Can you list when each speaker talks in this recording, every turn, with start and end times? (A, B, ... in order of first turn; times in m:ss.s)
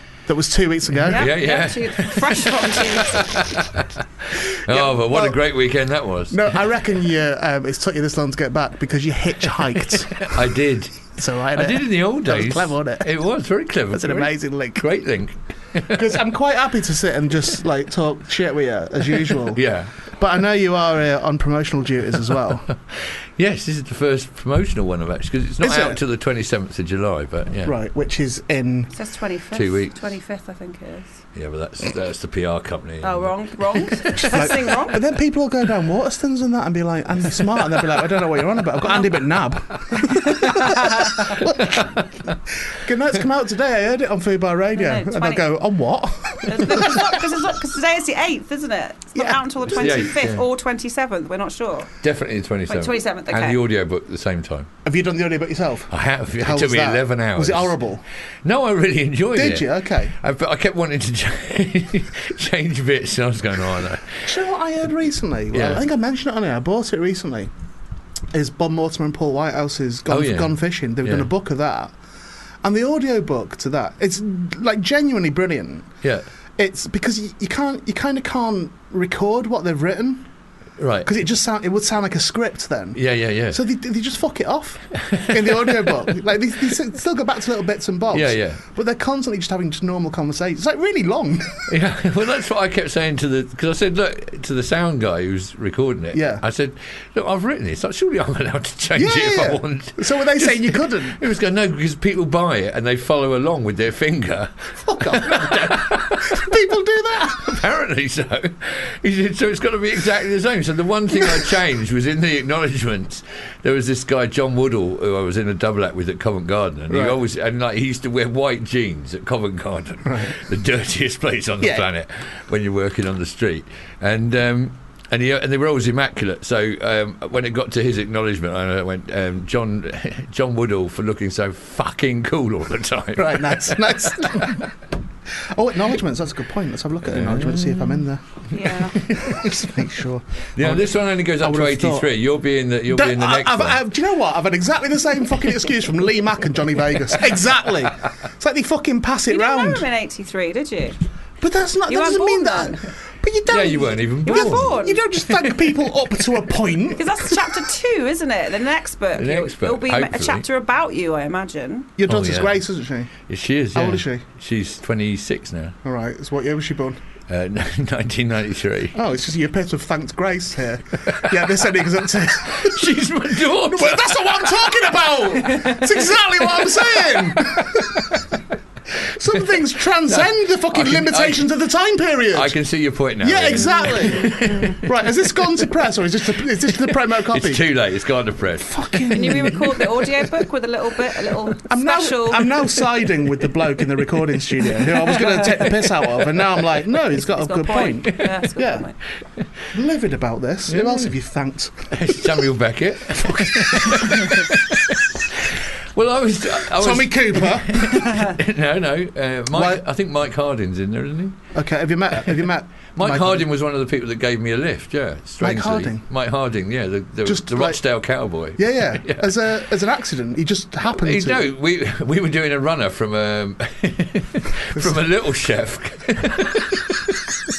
0:00.3-0:01.3 A
0:01.0-0:06.6 B
0:01.1-0:03.4 C
0:04.7-0:05.4 A
0:06.3-0:10.6 A
0:09.9-0:16.1 B
0:11.1-0:13.2 A
0:13.9-0:14.9 A
0:15.8-0:22.7 A
0:19.2-0:19.9 B
0:22.9-0:27.7 B
0:25.6-0:26.0 A
0:27.6-0:28.9 A
0:28.9-0:31.2 C
0:29.5-0:30.0 B
0:31.3-0:34.5 B
0:33.0-0:35.0 C
0:34.1-0:42.0 A
0:40.0-0:41.3 C
0:41.4-0:42.1 B
0:42.6-0:47.3 A
0:44.8-0:45.5 C
0:46.4-0:51.9 C
0:49.2-0:50.3 A
0:49.7-0:50.5 B
0:52.0-0:54.7 B
0:52.7-0:53.6 C
0:54.8-0:58.0 A
0:55.9-0:57.7 B
0:58.4-1:04.2 B
0:59.3-1:00.2 A
1:04.2-1:07.5 A
1:05.5-1:05.8 B
1:08.3-1:12.0 A
1:10.1-1:11.3 B
1:12.6-1:15.9 A
1:16.6-1:20.3 A
1:20.8-1:21.1 B
1:21.0-1:31.7 A
1:23.0-1:23.6 B
1:25.0-1:26.0 B
1:28.1-1:28.6 B
1:31.7-1:46.5 B
1:36.1-1:36.4 A
1:39.0-1:41.2 A
1:44.8-1:47.6 A
1:47.3-2:14.7 B
1:51.1-1:51.5 A
1:56.9-1:57.2 A
2:00.0-2:00.4 A
2:01.6-2:01.9 A
2:13.2-2:14.6 A
2:15.3-2:22.1 A
2:17.1-2:18.0 B
2:18.5-2:19.0 C
2:18.7-2:19.6 B
2:20.6-2:23.8 B
2:22.9-2:29.9 A
2:29.3-2:31.0 C
2:31.4-2:37.5 A
2:31.9-2:32.8 C
2:33.5-2:35.8 B
2:34.2-2:35.0 C
2:36.9-2:41.9 C
2:39.2-2:40.4 B
2:42.0-2:43.1 A
2:42.1-2:42.6 B
2:43.3-2:45.8 B
2:43.7-2:44.2 A
2:45.8-2:47.0 A
2:47.3-2:49.0 B
2:48.9-2:58.2 A
2:51.1-2:51.4 B
2:52.5-2:58.2 B
2:59.0-3:02.6 A
3:00.1-3:01.5 B
3:02.3-3:04.9 B
3:03.2-3:07.8 A
3:07.1-3:09.5 B
3:08.6-3:10.2 A
3:09.1-3:12.6 C
3:11.7-3:18.9 A
3:14.7-3:15.9 B
3:17.3-3:19.0 C
3:19.7-3:22.2 A
3:20.7-3:21.2 B
3:21.9-3:31.4 B
3:23.1-3:24.4 A
3:26.6-3:28.1 A
3:29.5-3:29.8 A
3:31.5-3:33.5 A
3:33.0-3:39.3 B
3:35.4-3:36.0 A
3:37.2-3:37.8 A
3:38.6-3:41.5 A
3:41.0-3:47.4 B
3:44.8-3:45.0 A